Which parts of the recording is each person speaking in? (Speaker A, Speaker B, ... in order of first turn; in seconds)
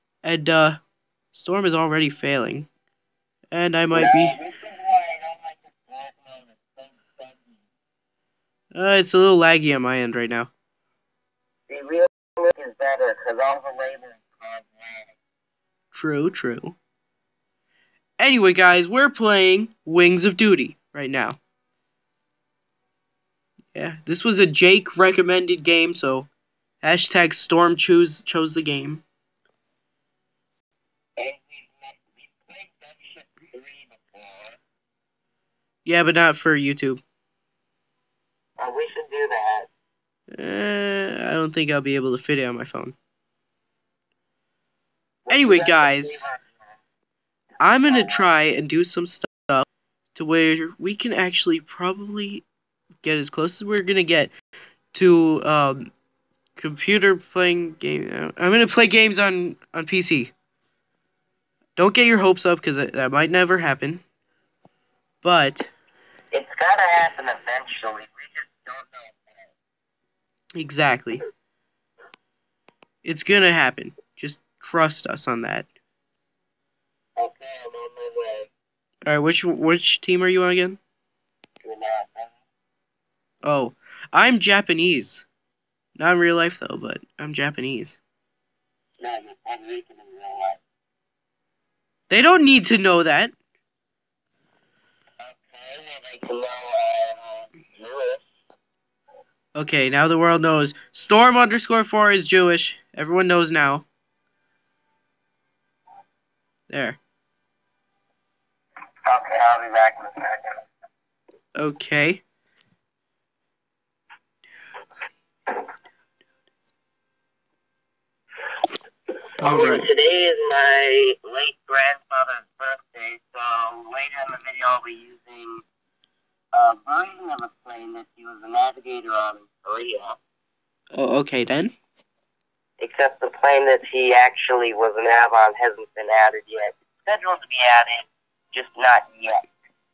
Speaker A: 0.2-0.8, 1.3-2.7, 3.5-4.4, 8.7-10.5, 15.9-16.8, 18.2-21.4, 23.7-26.3, 26.8-29.0, 35.8-37.0, 40.3-43.0, 45.3-46.2, 47.6-52.5, 53.0-54.3, 54.9-55.9, 56.6-60.3, 61.8-64.0, 65.2-65.7, 70.6-71.2, 73.0-75.7, 79.1-80.8, 83.4-85.3, 86.0-88.0, 92.1-93.3, 99.5-103.9, 106.7-107.0, 111.6-112.2, 119.4-119.9, 130.9-131.7
Speaker B: 3.9-7.6, 11.7-15.2, 31.2-34.6, 38.6-39.7, 45.2-46.5, 47.9-48.2, 66.3-69.5, 77.2-78.5, 81.6-82.3, 89.0-90.6, 95.2-98.2, 109.1-110.6, 119.4-125.6, 126.5-130.2, 132.8-139.4